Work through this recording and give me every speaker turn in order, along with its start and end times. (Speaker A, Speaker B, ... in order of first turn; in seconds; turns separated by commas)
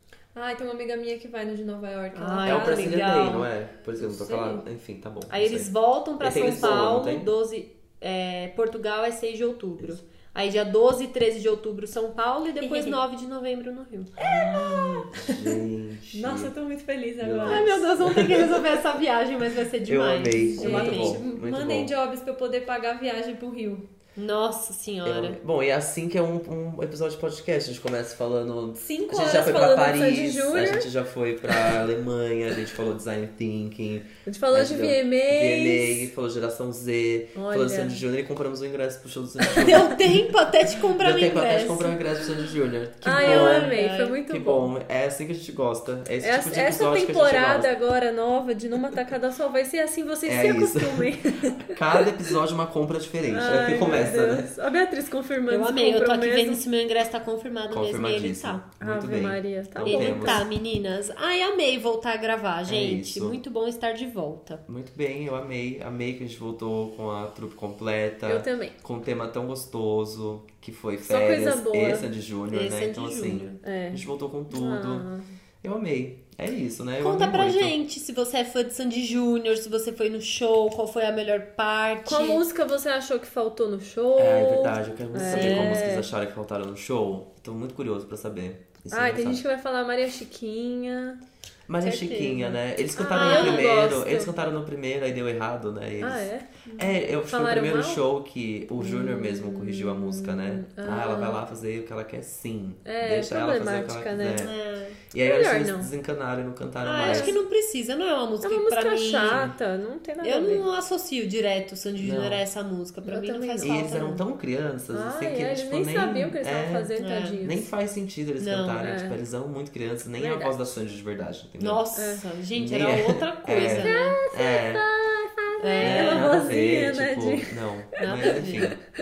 Speaker A: 0.3-3.2, Speaker B: 2.1-3.5, Speaker C: 2.4-7.3, Speaker A: 4.0-4.6, Speaker B: 5.3-14.1, Speaker A: 12.6-13.0, Speaker A: 14.2-15.6, Speaker C: 14.2-16.5, Speaker A: 16.1-17.8, Speaker C: 17.2-18.8, Speaker B: 17.4-21.2, Speaker C: 19.8-21.9, Speaker A: 20.4-23.9, Speaker B: 24.1-25.4, Speaker C: 25.0-40.1, Speaker A: 28.8-30.9, Speaker A: 34.2-36.1, Speaker A: 37.3-38.0, Speaker B: 39.5-42.0, Speaker C: 40.8-47.7, Speaker A: 43.0-44.7, Speaker B: 43.1-44.2, Speaker A: 46.2-52.1, Speaker C: 50.2-54.5, Speaker A: 53.3-56.6, Speaker B: 55.5-58.6, Speaker C: 57.7-60.4, Speaker A: 58.8-60.5, Speaker B: 59.8-64.6, Speaker C: 62.6-63.4, Speaker C: 64.7-75.0, Speaker A: 68.2-68.8, Speaker A: 71.1-72.1, Speaker B: 72.5-73.6, Speaker A: 73.6-75.2, Speaker C: 75.6-77.7, Speaker B: 77.0-82.4, Speaker A: 82.0-86.1, Speaker C: 84.2-89.4, Speaker B: 85.3-85.6, Speaker A: 88.9-91.2, Speaker C: 91.7-104.5, Speaker B: 91.8-93.7, Speaker A: 91.9-94.3, Speaker A: 96.0-98.0, Speaker A: 98.8-101.4, Speaker A: 102.8-104.5, Speaker B: 104.3-105.0, Speaker C: 105.1-107.4, Speaker A: 105.2-105.9, Speaker B: 106.8-109.5, Speaker A: 107.0-107.4, Speaker A: 108.4-110.7, Speaker B: 110.2-114.2, Speaker C: 112.0-112.4, Speaker A: 113.0-113.8, Speaker C: 113.6-121.8, Speaker A: 114.9-117.7, Speaker B: 117.0-117.4, Speaker B: 118.4-118.8, Speaker A: 118.8-119.2, Speaker A: 120.2-120.6, Speaker B: 121.6-124.2, Speaker A: 121.9-122.3, Speaker C: 122.5-124.8, Speaker A: 123.8-128.7, Speaker B: 125.6-126.4, Speaker C: 125.8-128.8, Speaker B: 128.0-128.7